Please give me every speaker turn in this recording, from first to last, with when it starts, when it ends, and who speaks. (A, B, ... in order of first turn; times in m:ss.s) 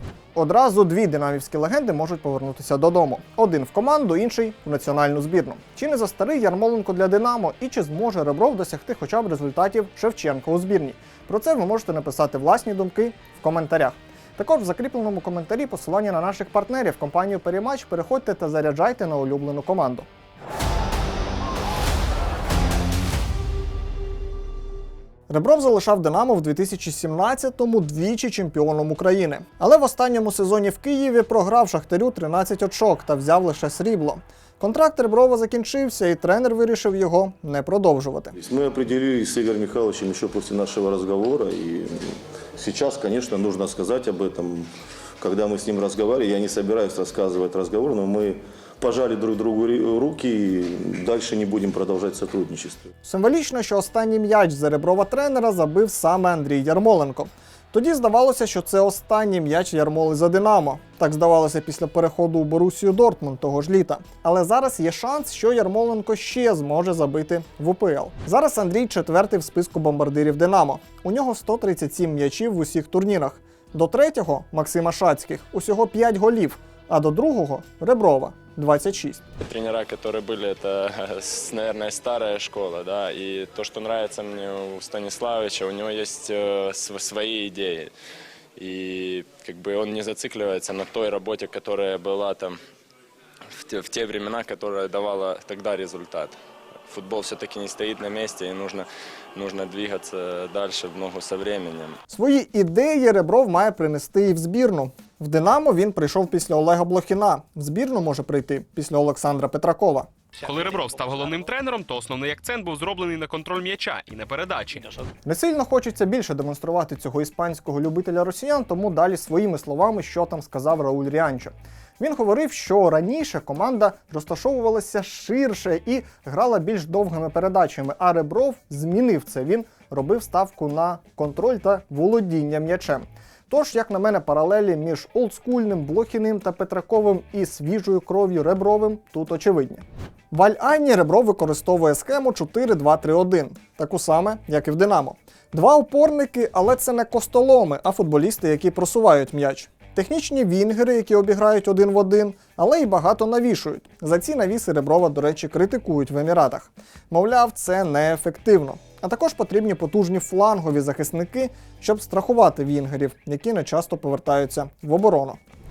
0:00.4-0:20.1 A
0:25.3-0:38.3 A
0:38.4-0:52.9 B
0:53.0-1:19.2 A
1:19.4-1:27.9 C
1:28.6-1:32.6 C
1:33.6-1:36.4 C
1:36.9-1:42.0 C
1:42.1-1:50.1 A
1:50.4-1:54.9 D
1:55.2-2:45.4 A